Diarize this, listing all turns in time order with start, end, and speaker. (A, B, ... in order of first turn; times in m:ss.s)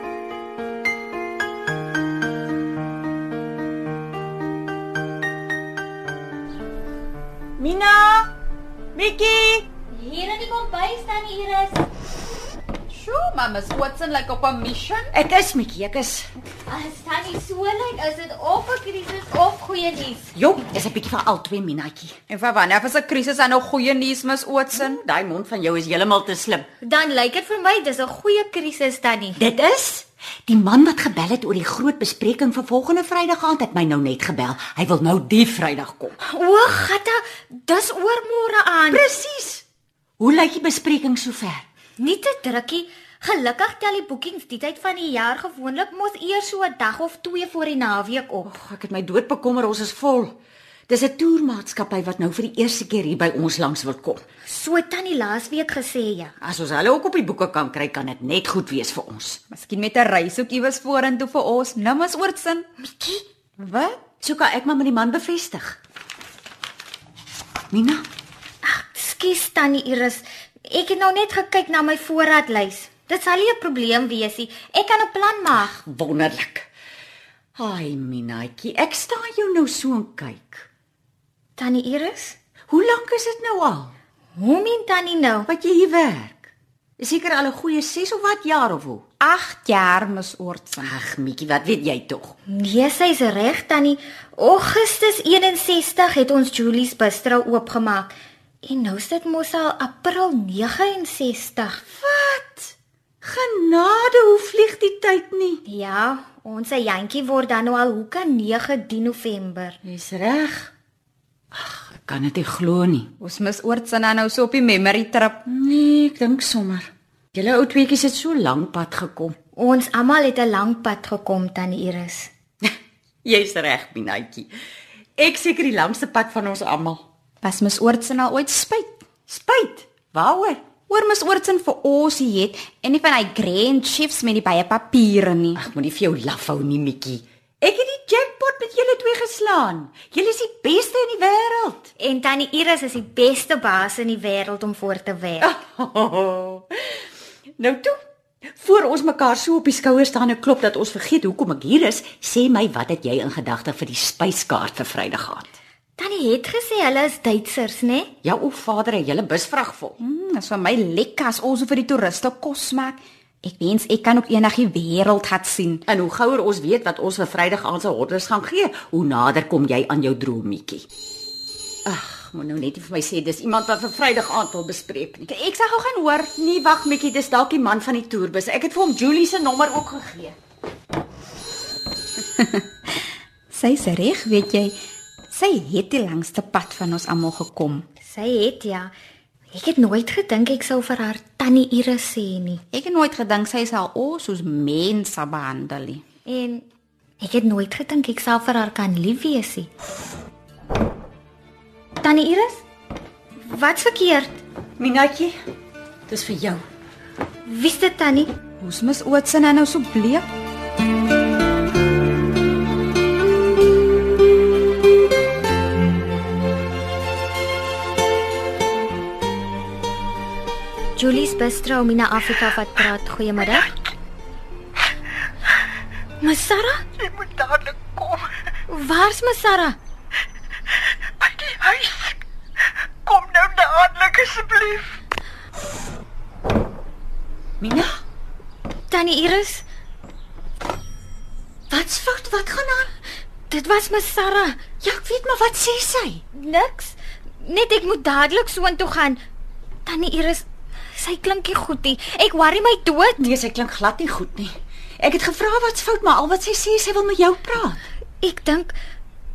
0:07.6-0:08.3 A
0:09.0-0:09.7 A
0:09.9-0:11.8 B
0:12.9-0:15.1 C
0:15.1-0:16.3 A
0:16.7-0:20.3 B
0:20.3-0:22.2 A
0:22.3-0:25.0 C
0:24.7-0:26.7 A
0:26.8-0:29.4 B
0:29.4-0:36.2 A
0:36.2-0:39.0 B
0:38.9-0:39.6 A
0:40.2-0:41.6 A
0:42.0-0:48.5 B
0:48.4-0:50.4 A
0:50.9-0:54.2 A
0:54.4-0:56.3 B
0:56.4-0:59.4 A
0:59.5-1:02.7 C
1:02.9-1:03.2 B
1:03.6-1:04.0 C
1:04.2-1:05.8 A
1:07.7-1:08.0 A
1:08.6-1:15.7 B
1:15.6-1:16.7 A
1:17.6-1:20.7 A
1:21.6-1:22.4 B
1:22.7-1:23.9 A
1:24.4-1:25.5 B
1:25.5-1:29.0 A
1:29.2-1:30.9 C
1:30.8-1:32.3 A
1:32.5-1:41.8 B
1:41.9-1:45.6 A
1:45.7-1:49.8 B
1:49.8-1:50.7 A
1:51.5-1:53.1 A
1:53.2-1:55.4 C
1:55.5-1:59.4 A
1:59.6-2:02.3 B
2:03.2-2:04.5 A
2:05.2-2:07.0 A
2:07.4-2:09.0 C
2:09.3-2:10.6 A
2:10.9-2:15.6 C
2:15.6-2:21.9 A
2:22.0-2:25.5 B
2:25.4-2:27.0 A
2:27.6-2:28.0 A
2:28.6-2:35.5 A
2:36.0-2:38.1 B
2:38.2-2:40.0 A
2:40.0-2:45.8 C
2:45.9-2:50.8 A
2:51.8-2:55.3 A
2:55.3-2:56.3 C
2:56.4-3:00.4 A
3:02.4-3:02.6 C
3:03.5-3:04.8 C
3:05.3-3:07.8 C
3:08.0-3:08.9 B
3:09.5-3:12.6 B
3:12.7-3:16.0 C
3:16.2-3:16.7 B
3:17.2-3:19.7 B
3:22.0-3:22.6 B
3:23.4-3:24.4 B
3:24.8-3:25.3 A
3:26.1-3:26.6 A
3:27.5-3:28.3 B
3:28.6-3:30.2 C
3:41.0-3:43.7 B
3:46.2-3:46.8 B
3:47.0-3:48.3 D
3:48.7-3:49.8 B
3:51.2-3:52.2 D
3:53.0-3:55.0 D
3:57.6-3:58.0 A
3:58.9-3:59.7 B
4:01.7-4:02.9 A
4:03.5-4:04.6 B
4:04.8-4:06.2 A
4:06.3-4:09.2 B
4:09.8-4:13.3 B
4:13.2-4:17.8 A
4:18.2-4:18.8 B